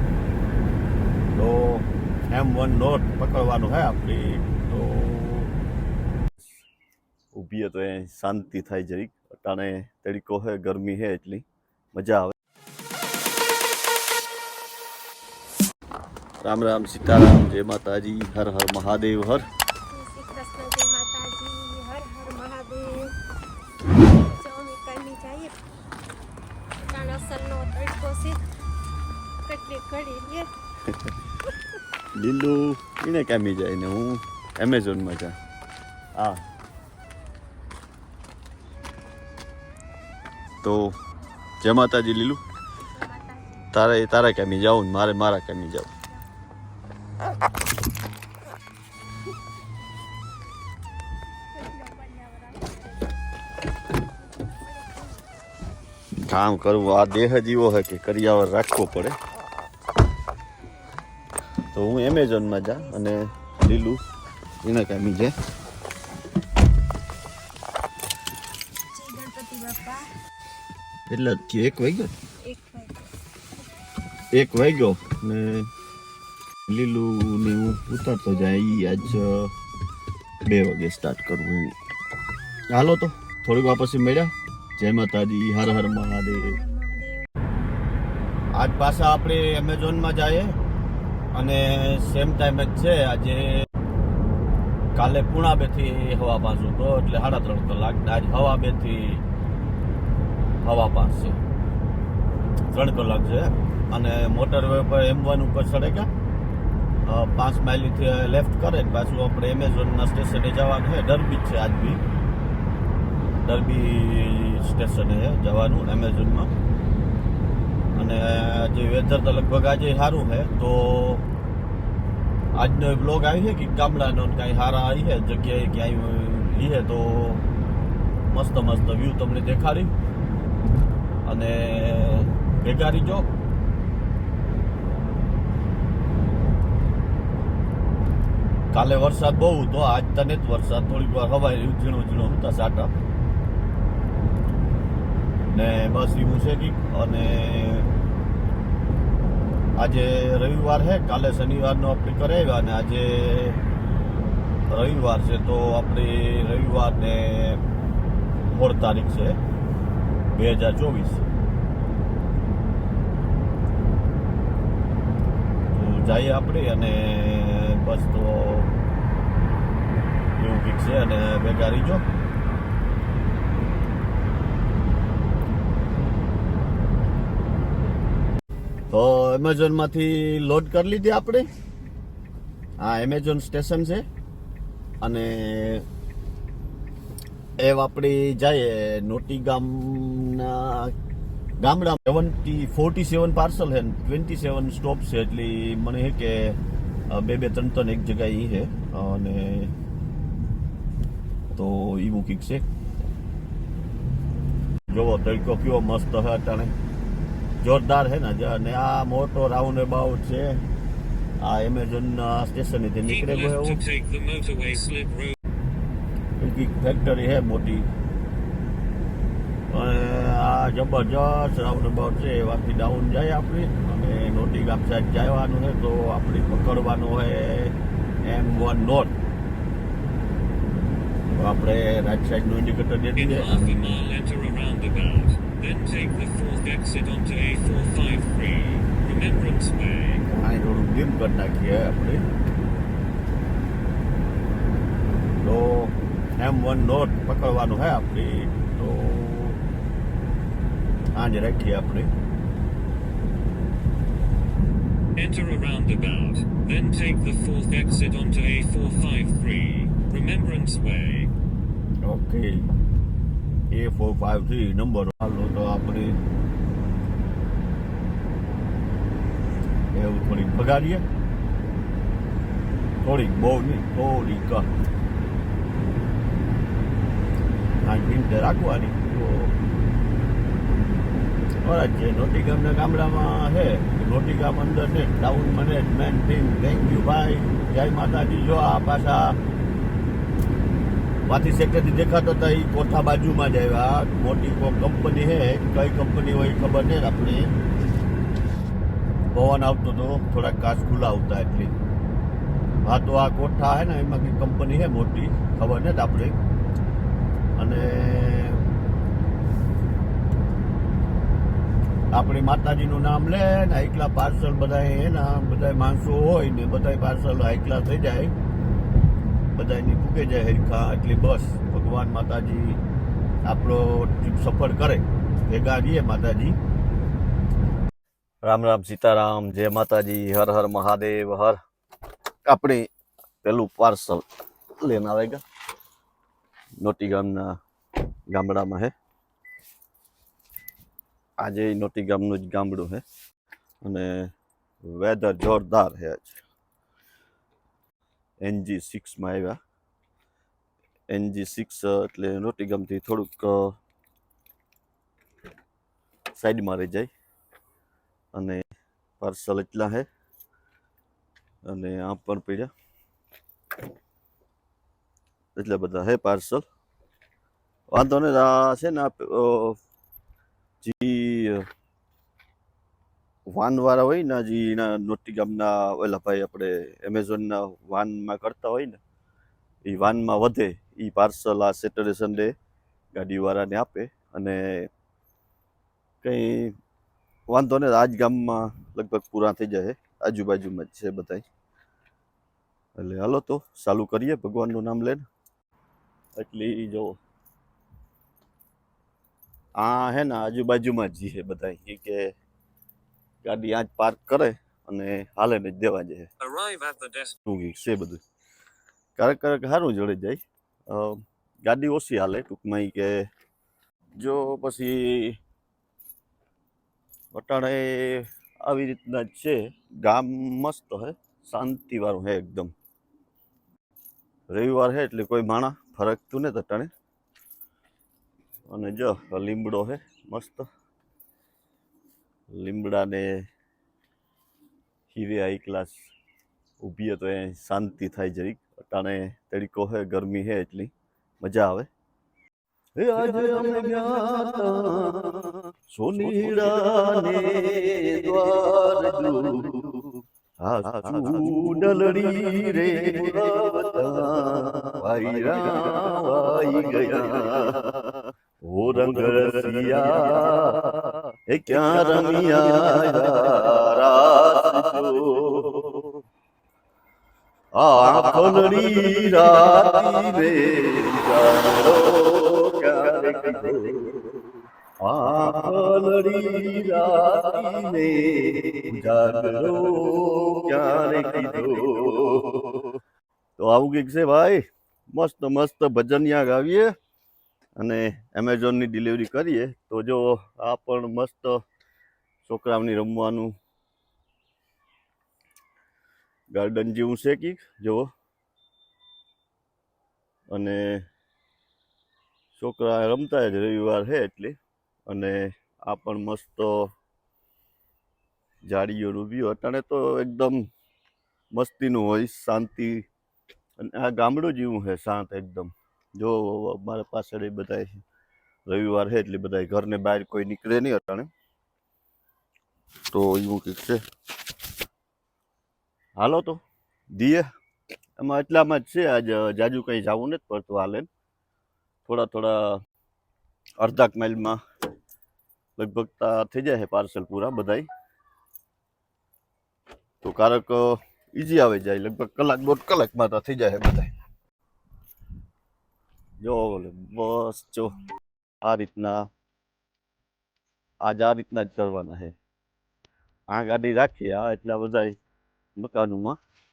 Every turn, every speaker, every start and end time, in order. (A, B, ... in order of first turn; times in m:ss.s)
0:01.4-0:05.5 A
0:07.3-0:12.3 A
0:16.4-0:19.4 A
0:19.9-0:23.1 B
0:24.0-0:25.6 B
0:26.8-0:28.4 B
0:29.5-0:30.5 B
0:32.2-0:35.4 A
0:36.2-0:36.4 A
0:40.6-0:40.9 A
0:41.6-0:42.4 A
0:42.9-0:43.6 B
0:43.7-0:45.9 A
0:51.5-0:53.1 B
0:54.4-0:55.3 B
0:56.3-0:59.2 A
1:01.7-1:04.0 A
1:04.6-1:05.3 A
1:08.9-1:10.1 B
1:11.1-1:12.1 A
1:12.4-1:13.1 B
1:14.3-1:15.7 A
1:16.7-1:19.5 A
1:20.4-1:21.7 A
1:22.7-1:26.6 A
1:26.6-1:27.2 B
1:28.6-1:30.6 A
1:31.4-1:33.6 A
1:35.0-1:39.2 A
1:40.6-1:41.4 A
1:42.7-1:46.1 A
1:47.1-1:52.0 A
1:53.4-1:56.5 A
1:58.0-2:01.3 A
2:02.6-2:07.4 A
2:08.3-2:09.9 A
2:11.2-2:13.3 A
2:18.7-2:22.9 A
2:25.5-2:27.9 A
2:29.8-2:33.6 A
2:34.7-2:37.6 A
2:38.5-2:39.4 A
2:40.3-2:41.2 A
2:45.7-2:48.7 A
2:50.4-2:52.0 A
2:58.9-3:01.5 A
3:02.8-3:04.0 A
3:05.0-3:05.8 A
3:07.6-3:10.9 A
3:11.6-3:16.6 A
3:17.1-3:19.7 A
3:21.5-3:22.6 A
3:24.9-3:26.7 A
3:27.6-3:30.6 A
3:31.4-3:33.8 A
3:33.0-3:35.4 C
3:36.4-3:37.9 A
3:39.7-3:49.1 A
3:51.3-3:54.0 A
3:53.2-4:00.2 C
4:00.3-4:02.2 A
4:05.4-4:09.6 A
4:11.2-4:12.1 A
4:15.2-4:21.3 C
4:22.0-4:22.7 A
4:23.7-4:26.2 A
4:30.0-4:31.0 A
4:33.0-4:34.7 A
4:37.8-4:39.5 A
4:41.6-4:49.4 A
4:51.3-4:57.5 A
4:59.3-5:01.7 A
5:02.8-5:06.4 A
5:07.6-5:08.6 A
5:12.1-5:18.3 A
5:19.6-5:22.8 A
5:23.5-5:26.6 A
5:28.4-5:31.6 A
5:32.5-5:32.9 A
5:33.4-5:34.2 A
5:34.8-5:35.4 A
5:36.8-5:37.6 A
5:38.3-5:38.9 A
5:41.4-5:43.0 A
5:43.8-5:44.3 A
5:44.8-5:46.4 A
5:48.4-5:49.6 A
5:51.1-5:53.7 A
5:56.4-5:57.1 A
5:58.3-5:58.6 A
5:59.2-6:00.1 A
6:01.6-6:02.7 A
6:05.6-6:06.6 A
6:07.9-6:09.8 A
6:10.8-6:11.6 A
6:13.5-6:19.0 A
6:19.9-6:22.5 A
6:23.1-6:24.9 A
6:26.2-6:26.8 A
6:27.5-6:31.4 A
6:33.0-6:35.2 A
6:36.4-6:37.2 A
6:39.8-6:42.3 A
6:43.4-6:46.3 A
6:46.4-6:47.4 C
6:47.5-6:48.2 A
6:49.2-6:53.2 A
6:54.2-6:55.4 A
6:57.3-7:02.7 A
7:04.5-7:06.9 A
7:08.7-7:10.7 A
7:12.5-7:13.3 A
7:15.1-7:16.0 A
7:16.8-7:21.9 A
7:23.0-7:46.2 A
7:47.8-7:54.2 A
7:55.0-8:03.0 A
8:03.6-8:04.6 A
8:05.1-8:06.9 A
8:07.8-8:11.6 A
8:12.4-8:13.5 A
8:16.5-8:18.1 A
8:20.5-8:21.0 A
8:22.6-8:24.6 A
8:25.1-8:26.8 A
8:28.6-8:30.6 A
8:31.5-8:33.0 A
8:33.8-8:38.0 A
8:38.7-8:41.3 A
8:43.1-8:44.0 A
8:46.2-8:46.6 A
8:47.1-8:47.5 A
8:48.2-8:51.1 A
8:52.0-8:52.7 A
8:53.8-8:54.6 A
8:55.8-8:57.9 A
9:00.2-9:04.1 A
9:06.4-9:07.9 A
9:08.6-9:09.2 A
9:11.0-9:12.3 A
9:13.5-9:15.2 A
9:15.8-9:16.4 A